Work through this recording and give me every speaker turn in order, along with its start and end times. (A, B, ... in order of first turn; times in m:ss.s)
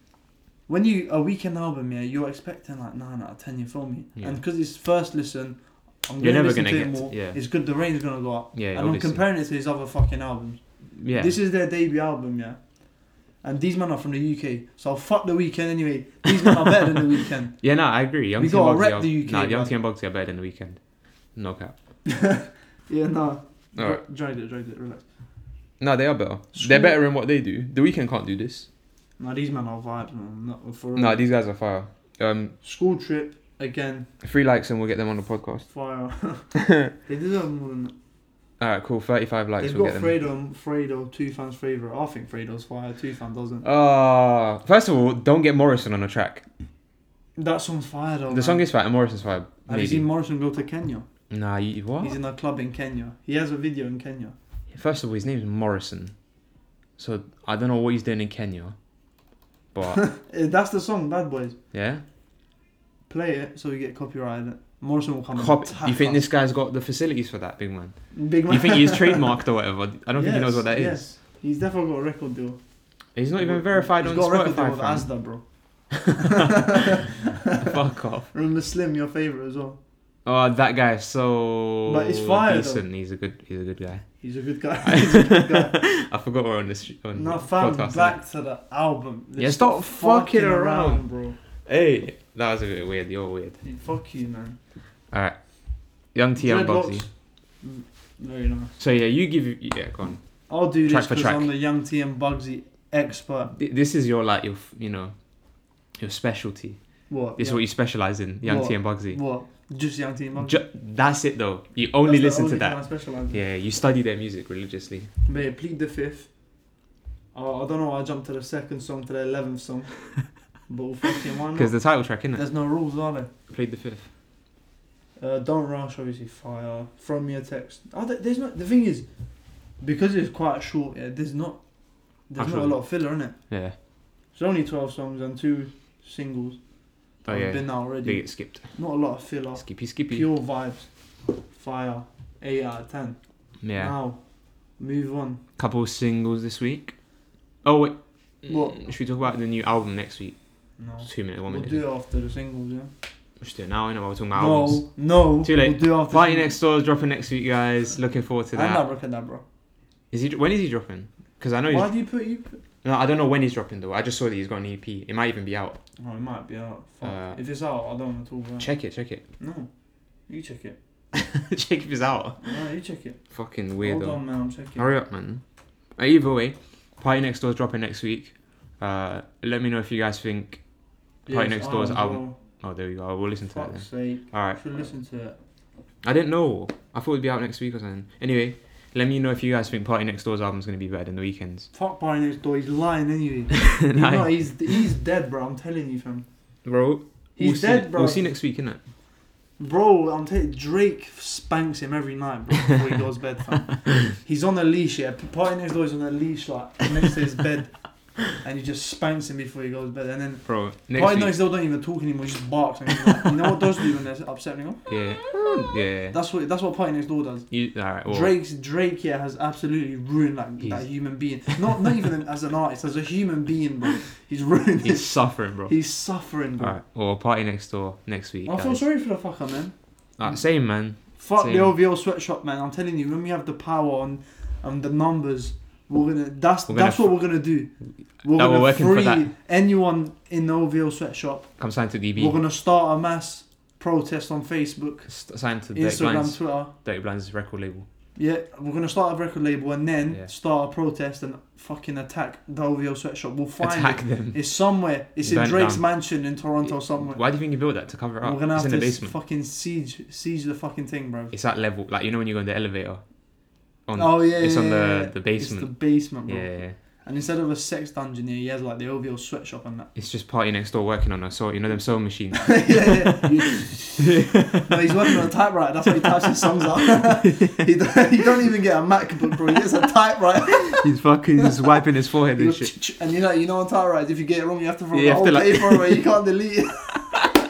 0:00.7-0:12.6 A
0:06.2-0:07.4 B
0:08.5-0:09.2 B
0:11.0-0:11.4 B
0:13.4-0:17.6 A
0:17.6-0:20.8 B
0:18.4-0:19.7 A
0:21.4-0:21.7 B
0:22.1-0:25.0 A
0:25.8-0:28.7 B
0:26.5-0:27.0 A
0:29.2-0:31.2 A
0:31.0-0:32.6 B
0:32.6-0:34.1 A
0:34.2-0:35.7 B
0:35.7-0:37.9 A
0:36.6-0:36.9 B
0:38.6-0:40.2 B
0:39.6-0:43.6 A
0:43.6-0:46.4 B
0:47.4-0:48.7 A
0:48.3-0:50.1 B
0:49.7-0:51.1 A
0:51.3-0:52.2 B
0:52.0-0:54.4 A
0:54.7-0:56.1 B
0:57.0-0:58.8 B
0:59.7-1:00.0 B
0:59.9-1:01.6 A
1:01.7-1:02.0 B
1:03.1-1:06.2 A
1:05.4-1:11.2 B
1:08.1-1:09.4 A
1:10.2-1:12.6 A
1:13.2-1:15.1 B
1:13.4-1:15.4 A
1:16.0-1:17.0 B
1:16.0-1:17.7 A
1:17.5-1:18.3 B
1:18.3-1:19.8 A
1:20.2-1:24.1 B
1:21.9-1:22.8 A
1:24.2-1:25.8 A
1:24.8-1:28.2 B
1:27.2-1:31.4 A
1:29.4-1:31.0 B
1:31.7-1:33.6 B
1:33.6-1:34.6 A
1:35.1-1:35.4 B
1:36.1-1:37.1 B
1:36.4-1:37.1 A
1:37.6-1:38.7 A
1:38.8-1:40.2 B
1:40.5-1:43.5 A
1:40.9-1:41.5 B
1:43.5-1:45.1 B
1:46.0-1:46.8 B
1:47.1-1:47.7 A
1:47.4-1:49.2 B
1:48.4-1:50.6 A
1:50.4-1:55.1 B
1:52.0-1:53.4 A
1:55.3-1:56.3 A
1:57.3-2:03.3 A
2:01.6-2:02.4 B
2:03.5-2:04.1 B
2:05.2-2:09.1 A
2:09.8-2:11.6 A
2:12.3-2:13.4 A
2:12.4-2:12.8 B
2:13.4-2:13.8 B
2:14.4-2:16.6 A
2:17.2-2:18.8 B
2:17.2-2:20.9 A
2:19.6-2:20.3 B
2:21.5-2:24.2 A
2:23.6-2:24.0 B
2:24.8-2:25.4 A
2:25.6-2:27.0 B
2:27.6-2:30.4 B
2:28.5-2:28.8 A
2:30.8-2:32.9 A
2:31.0-2:31.8 B
2:33.4-2:38.8 B
2:34.4-2:36.5 A
2:38.5-2:39.4 A
2:40.1-2:41.9 B
2:41.7-2:42.6 A
2:42.8-2:45.8 B
2:46.0-2:48.7 A
2:47.0-2:47.4 B
2:48.6-2:49.2 B
2:49.4-2:49.7 A
2:50.3-2:50.8 A
2:51.1-2:52.5 B
2:52.4-2:53.2 A
2:53.3-2:54.2 B
2:53.8-2:54.9 A
2:54.8-2:55.4 B
2:56.0-3:00.6 B
3:01.3-3:02.4 A
3:01.3-3:04.6 B
3:03.5-3:05.4 A
3:06.0-3:11.7 B
3:11.7-3:16.3 A
3:13.7-3:14.8 B
3:16.6-3:18.8 B
3:17.4-3:18.4 A
3:19.6-3:27.8 A
3:28.3-3:34.8 A
3:30.5-3:31.4 B
3:34.9-3:36.2 B
3:36.1-3:37.5 A
3:37.5-3:38.3 B
3:38.0-3:46.8 A
3:44.8-3:45.8 B
3:46.6-3:48.8 B
3:48.5-3:49.7 A
3:50.2-3:51.8 B
3:51.2-3:57.7 A
3:56.7-3:57.2 B
3:58.2-3:59.3 B
3:58.2-4:01.6 A
4:01.6-4:02.4 B
4:02.2-4:05.1 A
4:05.1-4:07.9 B
4:05.7-4:06.7 A
4:08.2-4:17.2 A
4:13.6-4:14.4 B
4:15.2-4:15.9 B
4:16.9-4:19.2 B
4:18.2-4:21.4 A
4:21.3-4:23.0 B
4:23.9-4:26.8 B
4:24.0-4:29.9 A
4:30.0-4:33.3 B
4:32.3-4:40.9 A
4:34.0-4:35.3 B
4:36.0-4:37.7 B
4:40.7-4:42.7 B
4:42.3-4:47.2 A
4:44.9-4:46.0 B